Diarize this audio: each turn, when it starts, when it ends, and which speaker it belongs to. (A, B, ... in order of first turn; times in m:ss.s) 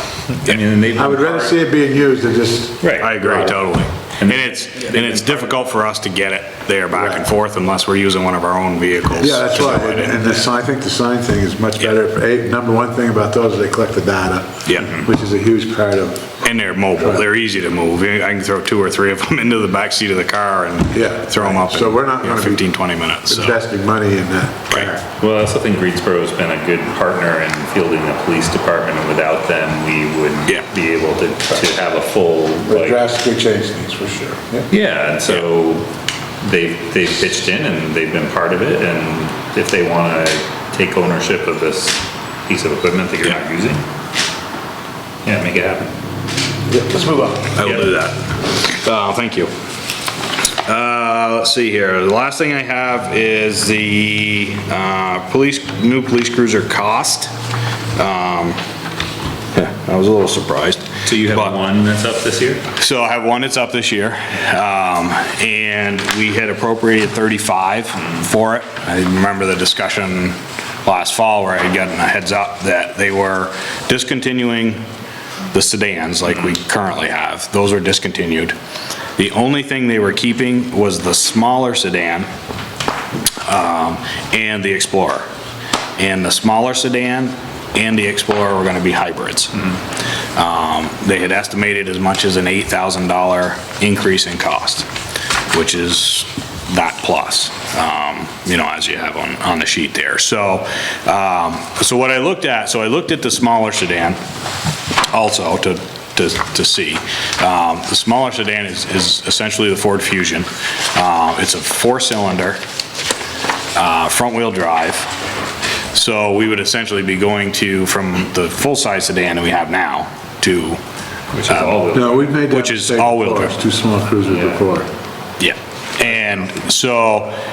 0:00.4-0:01.6 A
0:00.9-0:02.8 B
0:02.8-0:03.6 A
0:03.0-0:10.5 C
0:04.2-0:05.6 A
0:06.9-0:07.3 B
0:09.2-0:17.2 B
0:14.7-0:15.0 C
0:14.8-0:15.1 A
0:16.4-0:23.6 C
0:20.9-0:22.7 B
0:23.2-0:25.0 B
0:25.2-0:33.0 A
0:32.7-0:34.7 B
0:34.7-0:35.9 A
0:36.4-0:43.8 A
0:45.2-0:45.9 A
0:46.7-0:47.6 B
0:47.6-0:49.5 C
0:47.6-0:47.9 A
0:50.7-0:57.3 C
0:58.0-0:58.6 C
0:59.5-1:01.6 C
1:01.0-1:02.6 A
1:02.8-1:14.8 C
1:15.5-1:18.5 C
1:19.2-1:22.3 C
1:23.4-1:25.2 C
1:26.0-1:29.5 C
1:30.4-1:34.9 C
1:35.5-1:44.2 C
1:45.1-1:52.6 C
1:53.8-1:55.1 C
1:55.9-2:00.8 C
2:01.3-2:02.3 A
2:01.5-2:01.8 C
2:01.9-2:04.9 B
2:02.4-2:03.6 C
2:04.3-2:04.7 A
2:05.4-2:07.4 C